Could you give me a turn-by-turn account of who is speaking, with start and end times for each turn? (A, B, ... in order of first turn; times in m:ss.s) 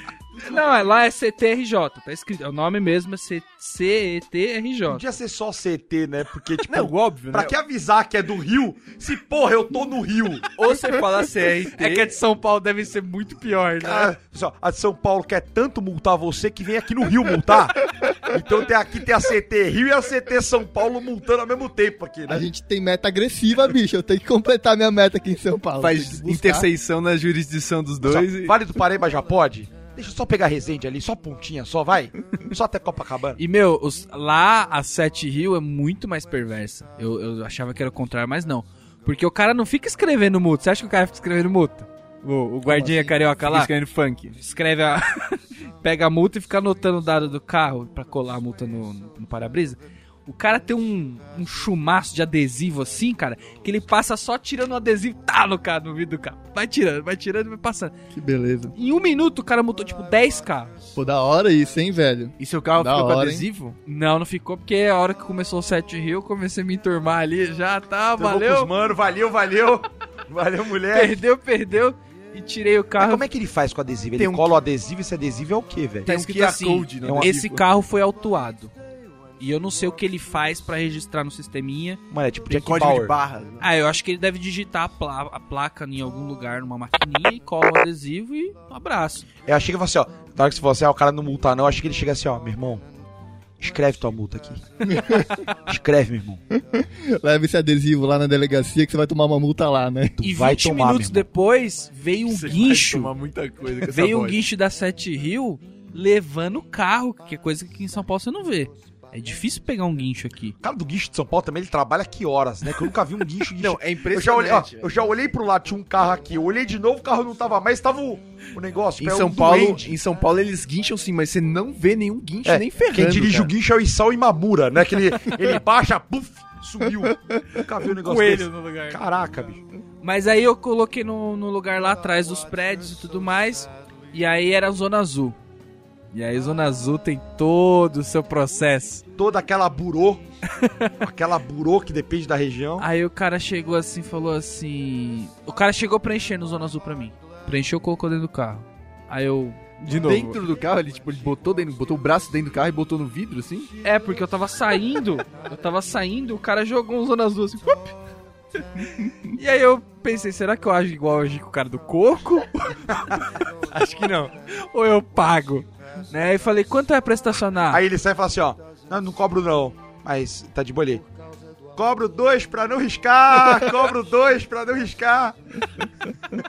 0:00.4-0:05.0 A
0:04.9-0:10.5 B
0:06.7-0:07.6 C
0:10.6-0:12.2 C
0:11.7-0:14.1 A
0:13.8-0:22.5 B
0:22.3-0:26.7 D
0:25.8-0:28.6 C
0:28.0-0:33.4 B
0:33.4-0:43.7 A
0:42.7-0:44.4 C
0:44.4-0:57.9 A
0:58.1-0:58.8 D
0:58.8-1:00.8 A
1:01.0-1:03.5 D
1:02.4-1:03.8 C
1:03.9-1:08.7 A
1:08.2-1:11.2 B
1:10.9-1:13.2 A
1:13.0-1:16.1 B
1:14.2-1:14.6 C
1:16.1-1:17.6 C
1:16.1-1:18.7 A
1:17.0-1:17.3 B
1:19.4-1:22.0 A
1:22.1-1:23.2 B
1:22.5-1:23.7 C
1:23.6-1:29.3 A
1:29.5-1:32.8 B
1:33.6-1:36.4 B
1:35.0-1:35.2 D
1:36.6-1:40.2 D
1:40.2-1:41.3 B
1:40.2-1:43.1 A
1:42.3-1:44.4 C
1:43.9-1:50.6 A
1:50.6-2:00.0 B
1:53.6-1:54.9 C
1:59.0-2:03.5 C
2:02.5-2:09.6 B
2:08.0-2:09.0 A
2:10.0-2:15.4 A
2:16.1-2:19.0 A
2:19.2-2:20.2 B
2:20.6-2:20.9 A
2:21.0-2:22.9 B
2:22.8-2:30.4 A
2:29.9-2:33.7 C
2:33.8-2:38.0 A
2:38.8-2:47.8 A
2:43.8-2:44.2 C
2:47.7-2:51.1 B
2:51.8-2:55.4 B